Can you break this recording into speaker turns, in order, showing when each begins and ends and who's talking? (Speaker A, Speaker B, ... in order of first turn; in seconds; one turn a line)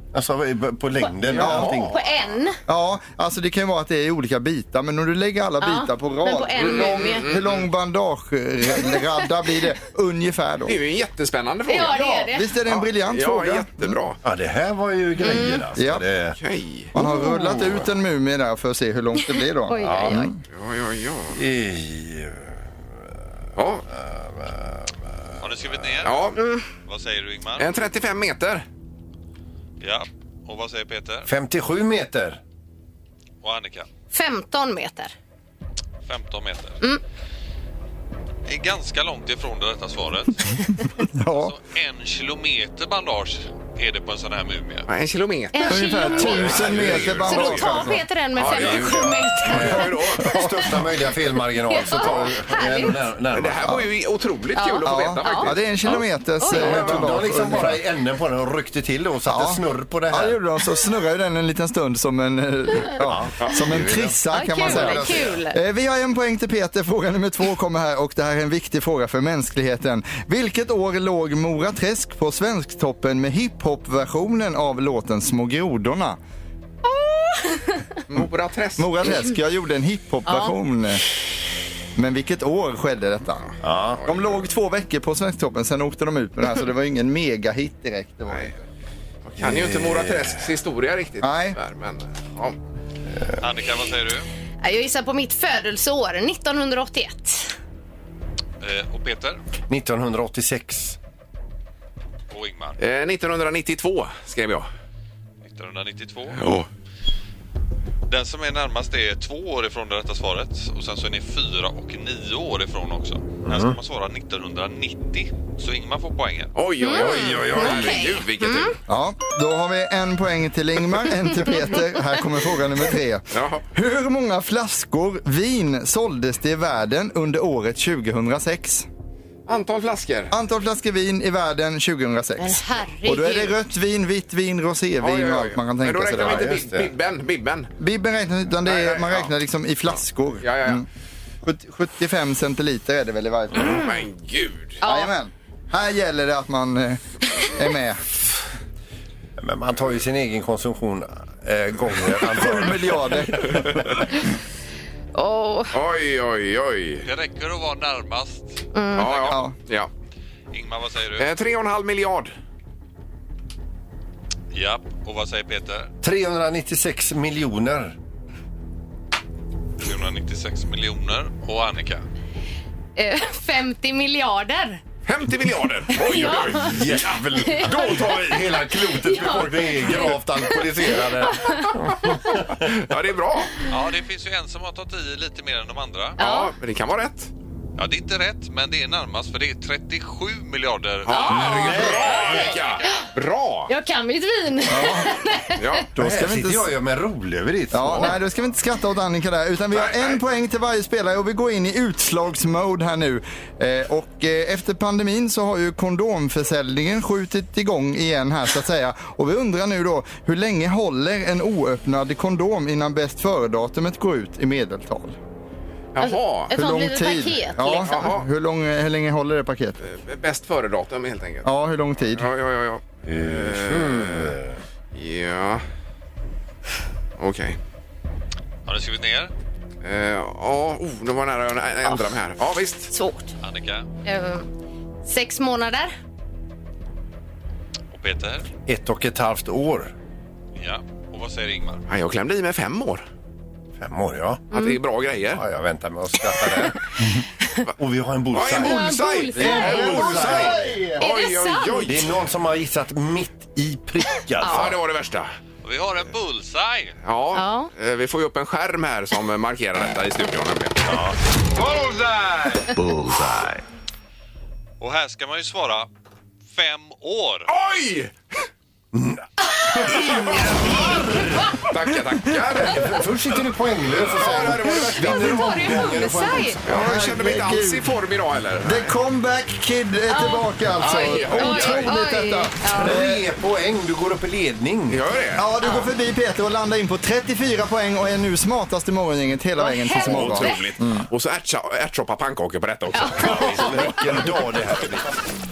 Speaker A: 0.1-2.0
Speaker B: 1.3-1.7
Speaker C: 1.3-1.9
Speaker D: 1.4-2.6
Speaker B: 2.7-10.8
Speaker D: 5.6-7.3
Speaker C: 6.6-7.7
Speaker C: 10.7-12.0
Speaker D: 11.7-12.6
Speaker B: 11.7-13.9
Speaker C: 12.7-14.2
Speaker A: 14.2-16.4
Speaker D: 15.2-15.7
Speaker B: 15.8-16.0
Speaker C: 16.4-16.9
Speaker B: 16.9-20.4
Speaker D: 17.0-17.3
Speaker D: 19.7-20.3
Speaker A: 19.8-20.2
Speaker C: 20.5-21.4
Speaker A: 21.3-22.6
Speaker C: 23.6-23.9
Speaker A: 23.9-25.2
Speaker E: 25.4-26.3
Speaker C: 26.0-26.4
Speaker D: 26.4-26.7
Speaker E: 26.9-27.7
Speaker C: 27.6-28.6
Speaker E: 29.8-31.3
Speaker A: 31.3-32.4
Speaker E: 33.4-33.9
Speaker D: 34.1-35.1
Speaker E: 36.0-36.8
Speaker E: 38.5-40.6
Speaker B: 41.2-41.5
Speaker E: 41.4-44.9
Speaker C: 44.9-47.7
Speaker D: 45.5-46.7
Speaker B: 45.6-48.0
Speaker A: 46.4-47.8
Speaker D: 47.2-50.8
Speaker C: 48.4-50.3
Speaker A: 48.4-53.8
Speaker D: 51.7-53.0
Speaker C: 51.9-52.3
Speaker C: 53.3-55.6
Speaker D: 54.5-55.5
Speaker B: 54.8-57.8
Speaker D: 56.4-56.9
Speaker A: 56.5-60.4
Speaker B: 59.3-76.2
Speaker A: 63.0-65.4
Speaker C: 63.4-63.9
Speaker D: 64.3-65.6
Speaker D: 76.9-77.8
Speaker C: 78.1-79.2
Speaker B: 78.8-81.0
Speaker D: 80.2-80.5
Speaker B: 81.9-83.5
Speaker A: 83.6-84.0
Speaker B: 84.0-88.5
Speaker C: 89.2-92.6
Speaker A: 89.4-90.4
Speaker B: 91.2-91.6
Speaker E: 93.4-94.3
Speaker D: 94.6-97.5
Speaker E: 98.6-99.4
Speaker A: 99.7-101.0
Speaker E: 102.3-102.8
Speaker C: 102.8-104.7
Speaker E: 105.4-106.5
Speaker C: 106.4-106.7
Speaker E: 108.1-116.5
Speaker A: 113.4-113.8
Speaker C: 116.5-118.8
Speaker D: 116.8-118.8
Speaker A: 117.0-118.0
Speaker B: 118.9-128.9
Speaker C: 123.3-123.6
Speaker C: 129.4-130.3
Speaker B: 130.3-136.6
Speaker D: 132.4-133.6
Speaker C: 135.0-137.7
Speaker A: 136.2-136.9
Speaker B: 137.8-140.8
Speaker C: 138.6-139.3
Speaker C: 139.9-140.8
Speaker B: 141.4-143.9
Speaker C: 143.5-144.8
Speaker D: 144.8-145.1
Speaker B: 144.8-148.0
Speaker A: 149.4-153.6
Speaker B: 152.2-154.0
Speaker D: 155.1-155.7
Speaker C: 155.7-157.1
Speaker E: 157.0-159.2
Speaker D: 158.7-159.1
Speaker C: 158.9-159.9
Speaker B: 159.2-159.5
Speaker E: 160.5-161.3
Speaker C: 161.2-162.3
Speaker E: 164.5-165.9
Speaker A: 166.0-167.9
Speaker E: 169.8-172.0
Speaker D: 173.0-174.8
Speaker C: 175.1-176.9
Speaker D: 175.9-178.2
Speaker A: 176.4-181.7
Speaker D: 178.9-181.7
Speaker A: 182.2-182.6
Speaker C: 182.6-183.6
Speaker E: 183.7-186.2
Speaker D: 186.2-186.5
Speaker C: 186.2-187.3
Speaker E: 187.8-192.8
Speaker D: 191.1-193.0
Speaker C: 191.1-193.7
Speaker A: 191.5-192.2
Speaker D: 193.7-195.8
Speaker B: 194.7-195.2
Speaker C: 195.6-195.9
Speaker B: 195.9-196.7
Speaker A: 195.9-198.2
Speaker B: 197.7-215.2
Speaker C: 199.8-200.2
Speaker C: 215.9-216.5
Speaker D: 216.0-217.9
Speaker B: 216.5-219.8
Speaker C: 217.7-218.3
Speaker C: 219.8-221.5
Speaker B: 221.4-222.3
Speaker C: 222.1-224.4
Speaker A: 223.1-224.6
Speaker C: 224.9-225.6
Speaker C: 227.2-227.6
Speaker E: 228.7-229.3
Speaker C: 229.8-232.9
Speaker D: 232.9-233.3
Speaker E: 233.4-233.8
Speaker D: 234.0-234.5
Speaker D: 235.0-235.9
Speaker E: 237.9-238.5
Speaker A: 238.7-239.9
Speaker E: 240.6-241.8
Speaker C: 241.9-243.0
Speaker A: 243.8-244.5
Speaker C: 244.5-245.4
Speaker A: 245.3-247.2
Speaker A: 247.8-250.6
Speaker C: 248.3-252.1
Speaker D: 248.5-251.9
Speaker B: 249.4-251.0
Speaker A: 251.8-254.8
Speaker C: 254.4-255.3
Speaker E: 255.6-257.0
Speaker C: 257.0-260.9
Speaker D: 257.3-257.7
Speaker A: 260.9-261.1
Speaker A: 261.7-263.5
Speaker E: 264.8-265.9
Speaker E: 266.5-267.5
Speaker C: 267.5-268.1
Speaker A: 268.9-269.2
Speaker A: 269.9-271.3
Speaker C: 269.9-273.0
Speaker A: 272.5-276.6
Speaker C: 274.0-275.8
Speaker D: 275.0-276.6
Speaker C: 276.6-278.9
Speaker B: 276.7-277.9
Speaker B: 278.6-283.2
Speaker D: 280.1-283.0
Speaker C: 280.8-282.0
Speaker A: 282.7-285.0
Speaker C: 284.9-285.4
Speaker B: 285.4-291.1
Speaker D: 285.6-285.9
Speaker D: 289.6-290.6
Speaker C: 289.9-294.3
Speaker D: 292.9-293.9
Speaker A: 293.1-295.2